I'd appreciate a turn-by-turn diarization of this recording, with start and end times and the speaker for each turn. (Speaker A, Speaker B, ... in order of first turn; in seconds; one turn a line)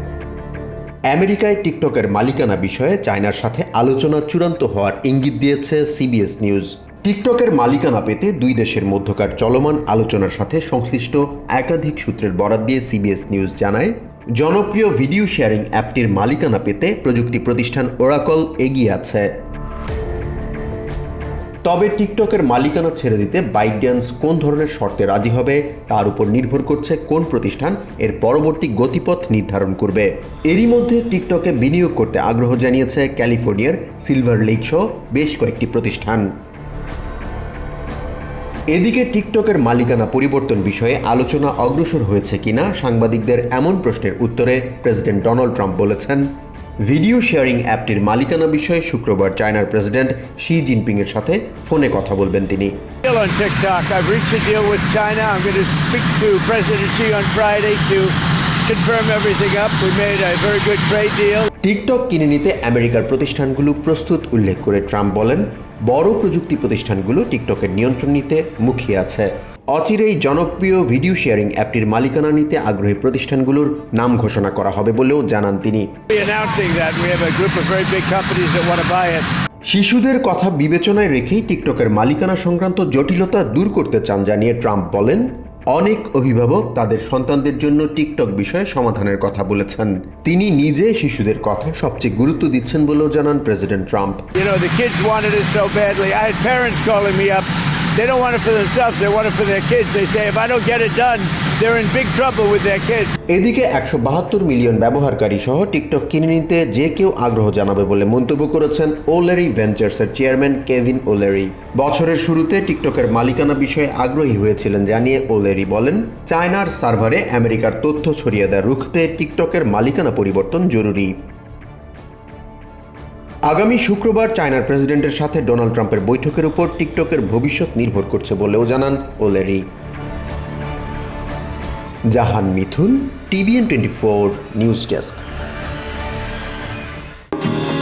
Speaker A: 1.1-19.3
Speaker A: 21.6-36.3
Speaker A: 38.7-46.3
Speaker A: 46.8-52.7
Speaker B: 53.0-61.5
Speaker A: 61.6-75.9
Speaker B: 76.1-79.3
Speaker A: 79.7-94.3
Speaker B: 94.3-103.1
Speaker A: 103.3-121.2
Speaker A: 123.5-129.7
Speaker A: 132.1-135.3